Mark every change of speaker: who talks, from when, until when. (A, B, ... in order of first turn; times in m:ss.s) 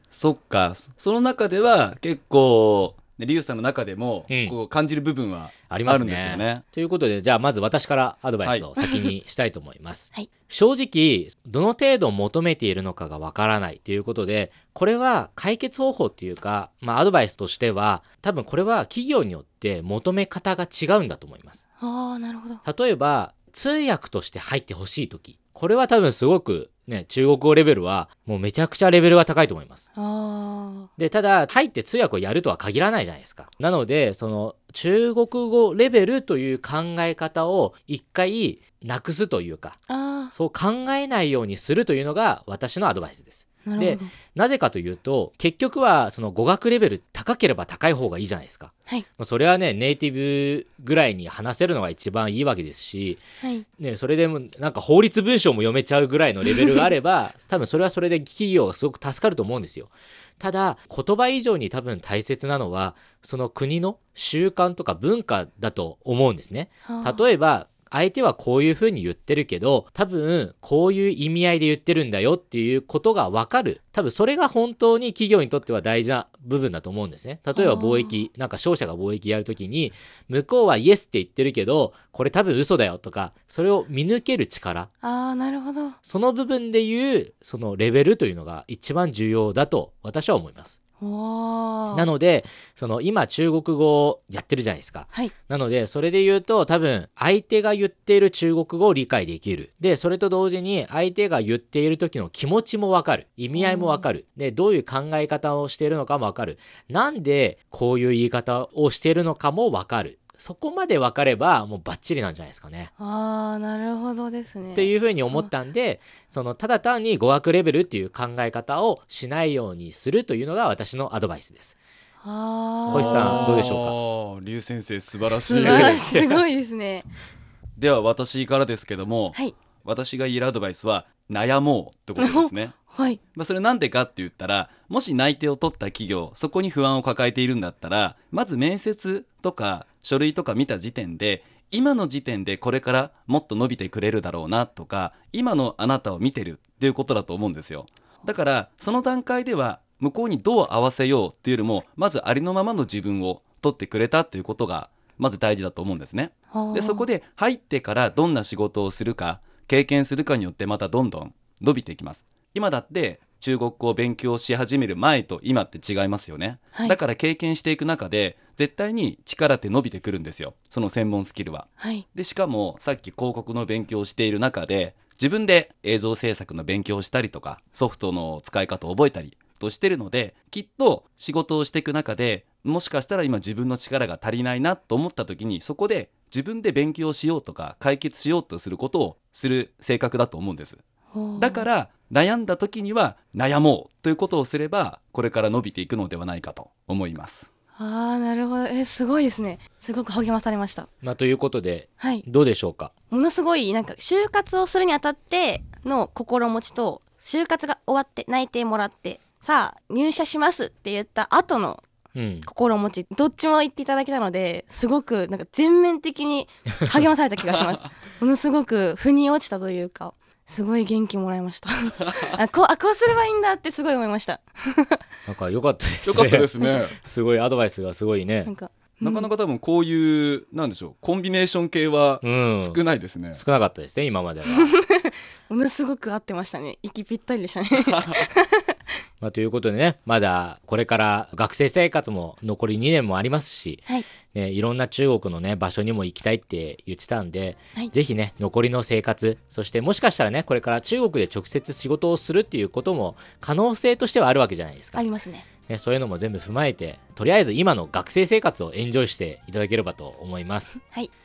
0:00.1-0:06.6 A
0:04.3-0:04.5 B
0:05.7-0:21.6 B
0:21.8-0:22.6 C
0:22.6-0:29.8 B
0:30.0-0:30.9 C
0:31.0-0:39.8 B
0:39.9-0:40.3 C
0:40.3-0:53.2 B
0:43.6-0:44.1 C
0:53.8-1:24.9 B
1:06.8-1:07.2 C
1:17.6-1:18.2 C
1:25.0-1:26.0 C
1:26.0-1:30.8 B
1:31.0-1:32.1 C
1:31.9-1:52.9 B
1:43.5-1:44.0 C
1:53.0-1:55.5 C
1:54.7-2:01.8 B
2:02.2-2:03.6 C
2:02.9-2:03.9 B
2:02.9-2:06.2 A
2:05.3-2:07.0 C
2:05.6-2:06.4 B
2:07.8-2:12.8 A
2:12.2-2:13.2 C
2:13.3-3:10.8 A
2:36.5-2:37.0 C
2:51.8-2:52.0 C
3:11.1-3:11.6 C
3:11.4-3:17.5 A
3:17.8-3:20.9 C
3:21.0-3:22.9 B
3:22.0-3:22.2 C
3:23.1-3:31.8 C
3:32.1-3:32.5 B
3:32.4-3:45.0 C
3:45.2-3:48.5 B
3:46.0-3:47.0 A
3:48.4-3:49.3 C
3:49.0-3:53.4 A
3:52.2-3:52.8 B
3:53.3-3:54.8 B
3:54.5-3:58.7 C
3:57.8-3:58.2 A
3:59.2-4:15.0 B
4:15.0-4:15.5 C
4:15.7-4:20.8 B